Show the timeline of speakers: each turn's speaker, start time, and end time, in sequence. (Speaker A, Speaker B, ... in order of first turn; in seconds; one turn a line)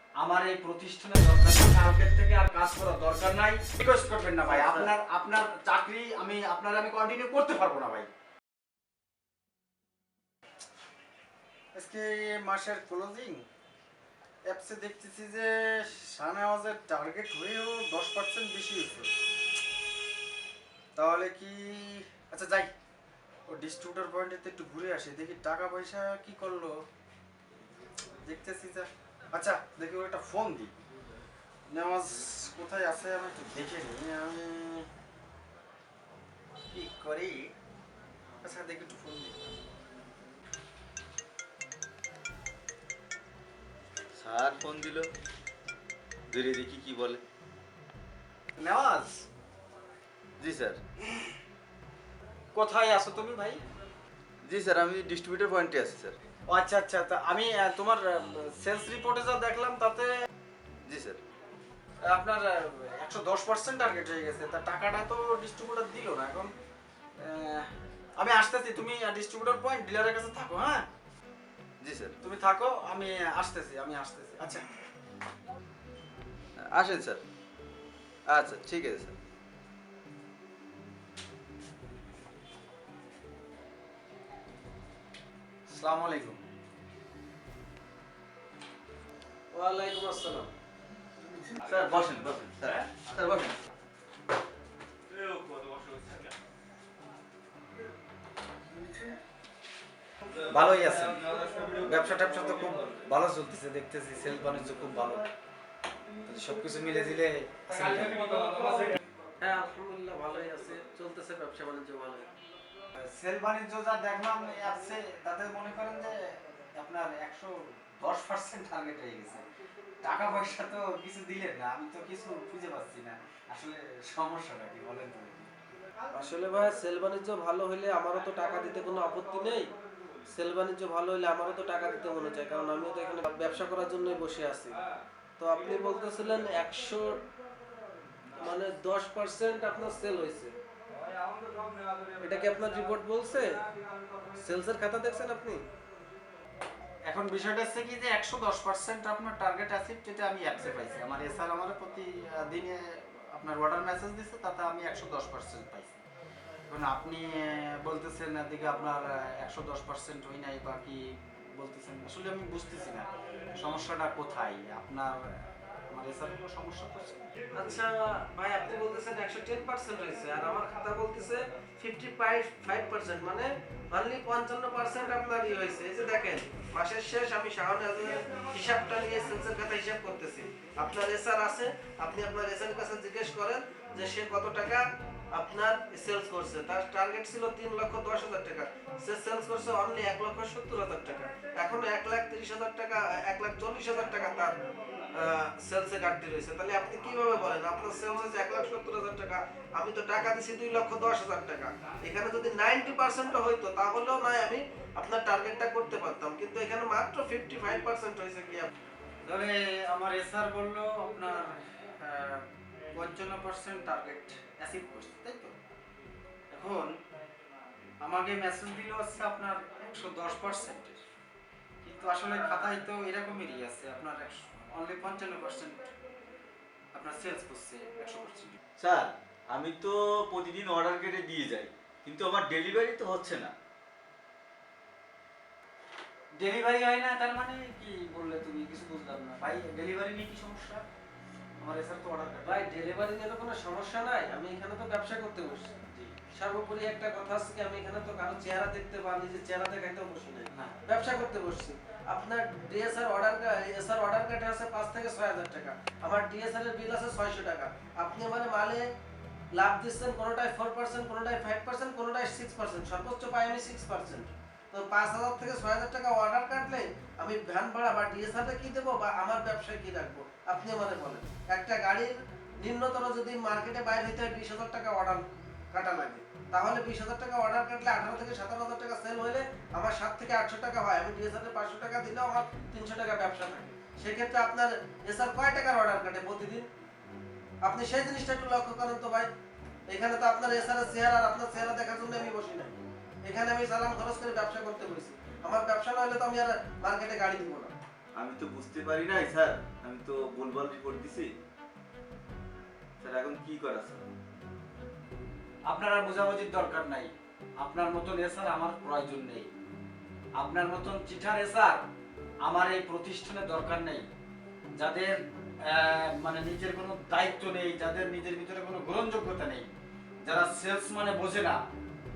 Speaker A: 0.2-8.1
Speaker A: 11.8-13.4
Speaker A: 14.5-19.1
Speaker A: 20.9-22.7
Speaker A: 23.5-26.8
Speaker A: 28.2-30.7
Speaker A: 31.7-34.9
Speaker A: 36.7-37.5
Speaker A: 38.4-39.4
Speaker B: 44.1-45.1
Speaker B: 46.3-47.2
Speaker A: 48.5-49.3
Speaker B: 50.4-50.8
Speaker A: 52.5-53.6
Speaker B: 54.5-56.1
Speaker A: 56.5-60.1
Speaker B: 60.9-61.2
Speaker A: 62.0-66.5
Speaker A: 67.2-70.9
Speaker B: 71.8-72.1
Speaker A: 72.2-74.6
Speaker B: 76.6-77.2
Speaker B: 78.3-79.2
Speaker A: 85.7-86.4
Speaker C: 89.5-90.5
Speaker B: 91.6-93.6
Speaker B: 95.1-96.3
Speaker A: 100.4-101.2
Speaker A: 101.8-105.3
Speaker A: 106.3-108.5
Speaker C: 108.4-112.3
Speaker A: 113.0-119.4
Speaker A: 120.0-125.5
Speaker C: 126.1-129.7
Speaker C: 130.3-134.8
Speaker C: 135.4-137.2
Speaker C: 138.3-140.6
Speaker C: 142.2-143.6
Speaker C: 144.3-145.6
Speaker A: 147.1-156.0
Speaker A: 156.7-167.2
Speaker C: 167.5-194.6
Speaker C: 195.1-208.7
Speaker A: 209.2-215.5
Speaker A: 216.5-216.9
Speaker A: 218.0-221.0
Speaker A: 221.8-225.9
Speaker A: 226.9-228.6
Speaker B: 228.8-233.5
Speaker A: 236.4-240.8
Speaker A: 241.6-242.7
Speaker C: 242.4-245.7
Speaker A: 245.9-246.2
Speaker C: 246.3-258.8
Speaker A: 250.5-250.8
Speaker C: 259.5-286.7
Speaker C: 287.6-289.3
Speaker C: 289.9-297.7
Speaker B: 298.2-301.3
Speaker B: 303.0-304.1
Speaker A: 305.7-309.5
Speaker A: 310.4-311.8
Speaker A: 312.4-314.1
Speaker A: 314.8-319.7
Speaker A: 320.2-321.6